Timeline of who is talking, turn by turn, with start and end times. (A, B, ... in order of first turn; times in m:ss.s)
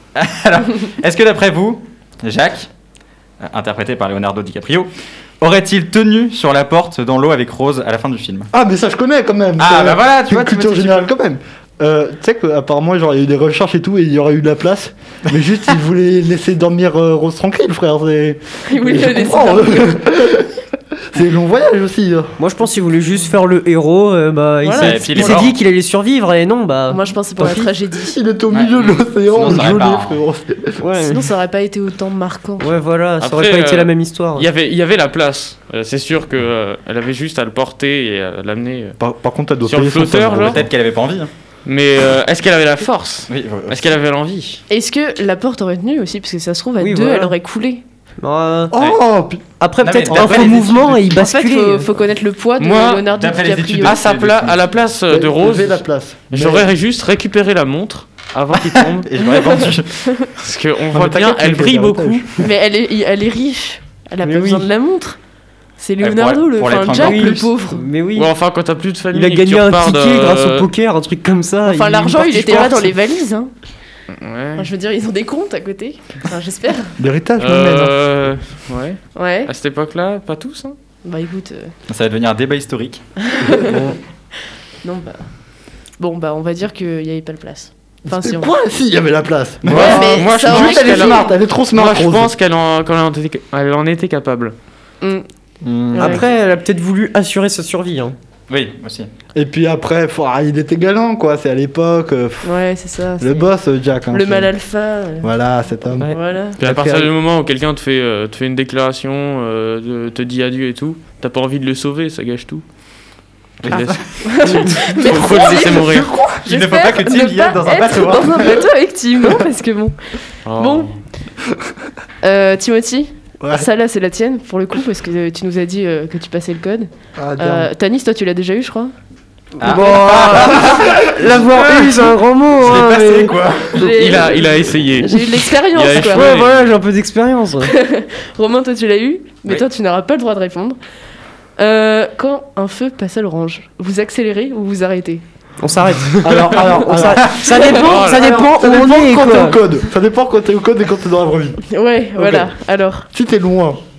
0:00.2-0:02.7 A
0:03.4-0:04.9 A
0:05.4-0:08.5 A
0:08.5-0:20.6 B
0:09.6-0:11.1 A
0:18.7-0:20.0 C
0:21.1-0:22.4 B
0:22.4-0:27.7 D
0:24.6-0:25.5 C
0:24.8-0:25.6 A
0:26.9-0:28.2 C
0:28.1-0:30.8 B
0:28.5-0:30.2 A
0:30.8-0:31.2 D
0:31.0-0:32.8 C
0:32.6-0:34.5 D
0:33.2-0:39.0 E
0:39.0-0:40.7 B
0:39.6-0:40.6 E
0:40.3-0:41.3 A
0:41.6-0:44.6 E
0:43.3-0:43.8 A
0:44.7-0:47.8 C
0:46.8-0:47.4 D
0:48.2-0:48.7 D
0:48.7-0:49.4 B
0:49.6-0:51.9 D
0:49.8-0:51.0 A
0:50.1-0:50.5 B
0:51.1-0:54.0 C
0:52.6-0:53.1 E
0:53.1-0:54.7 A
0:53.8-0:59.2 E
0:55.1-0:56.7 B
0:59.0-1:00.1 A
0:59.2-1:00.3 C
1:00.4-1:02.3 E
1:00.9-1:02.4 B
1:02.4-1:05.2 C
1:04.2-1:04.7 D
1:05.8-1:07.8 C
1:06.0-1:07.5 A
1:06.9-1:08.3 D
1:08.2-1:10.7 E
1:09.1-1:12.9 D
1:11.7-1:13.5 C
1:14.1-1:14.7 E
1:14.6-1:17.0 C
1:17.0-1:18.0 B
1:17.4-1:20.8 E
1:19.2-1:19.5 C
1:21.0-1:21.7 C
1:21.9-1:23.0 A
1:23.2-1:23.8 C
1:23.5-1:23.9 B
1:24.8-1:25.2 C
1:26.0-1:28.5 C
1:28.1-1:32.3 B
1:29.7-1:30.0 A
1:29.7-1:34.6 E
1:29.7-1:31.3 C
1:35.0-1:35.3 C
1:35.6-1:36.2 B
1:35.9-1:36.2 C
1:36.0-1:38.2 D
1:38.5-1:39.1 A
1:39.4-1:42.5 B
1:42.4-1:43.5 C
1:43.2-1:44.5 B
1:44.1-1:45.3 C
1:45.2-1:46.1 B
1:46.0-1:47.1 D
1:46.0-1:46.6 C
1:46.6-1:52.6 E
1:53.6-1:54.2 A
1:53.7-1:56.1 E
1:54.2-2:00.0 C
1:55.0-1:56.4 B
1:56.4-1:58.6 A
2:00.5-2:00.9 E
2:00.6-2:00.9 C
2:02.2-2:08.9 C
2:03.4-2:03.7 B
2:07.2-2:07.7 B
2:09.6-2:11.8 A
2:09.6-2:13.4 D
2:10.5-2:11.9 B
2:12.6-2:13.8 A
2:13.7-2:16.3 C
2:13.8-2:16.6 E
2:13.8-2:14.5 B
2:15.1-2:17.7 D
2:17.6-2:20.8 C
2:21.6-2:25.2 C
2:25.6-2:29.6 D
2:26.2-2:31.6 B
2:27.7-2:28.3 E
2:31.7-2:33.1 C
2:32.2-2:32.5 B
2:33.1-2:33.8 B